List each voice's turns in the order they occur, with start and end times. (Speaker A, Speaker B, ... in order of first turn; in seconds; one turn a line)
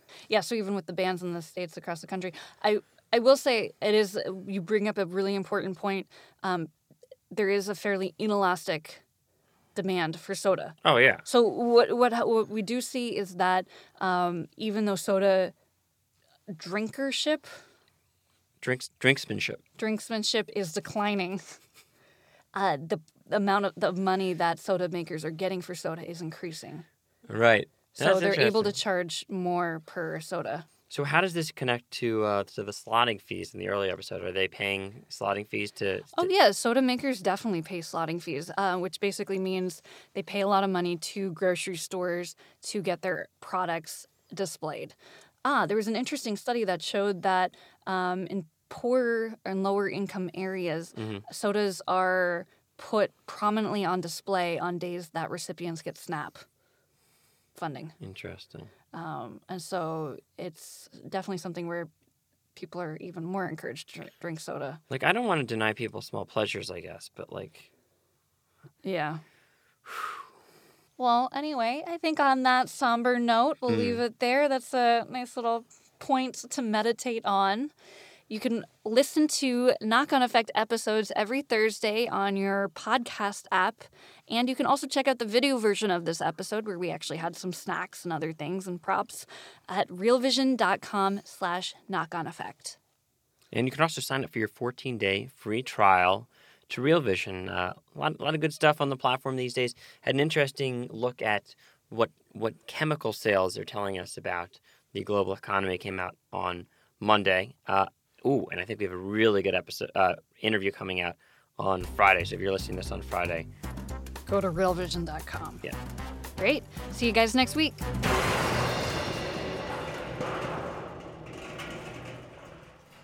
Speaker A: 0.3-6.7
Speaker A: 7.3-9.0
Speaker A: 9.7-15.5
Speaker B: 10.8-11.2
Speaker A: 16.5-17.5
Speaker B: 18.6-19.6
Speaker A: 19.8-21.4
Speaker A: 22.5-26.9
Speaker B: 27.3-28.8
Speaker A: 27.9-30.6
Speaker B: 30.9-36.3
Speaker A: 36.2-56.4
Speaker B: 51.0-51.2
Speaker A: 57.5-57.9
Speaker B: 58.0-58.7
Speaker A: 58.9-61.9
Speaker A: 62.5-64.8
Speaker B: 64.9-67.7
Speaker A: 68.8-69.2
Speaker B: 69.8-70.2
Speaker A: 71.0-77.7
Speaker B: 73.7-74.0
Speaker A: 78.3-92.8
Speaker B: 93.5-113.5
Speaker A: 114.3-115.6
Speaker A: 116.4-117.8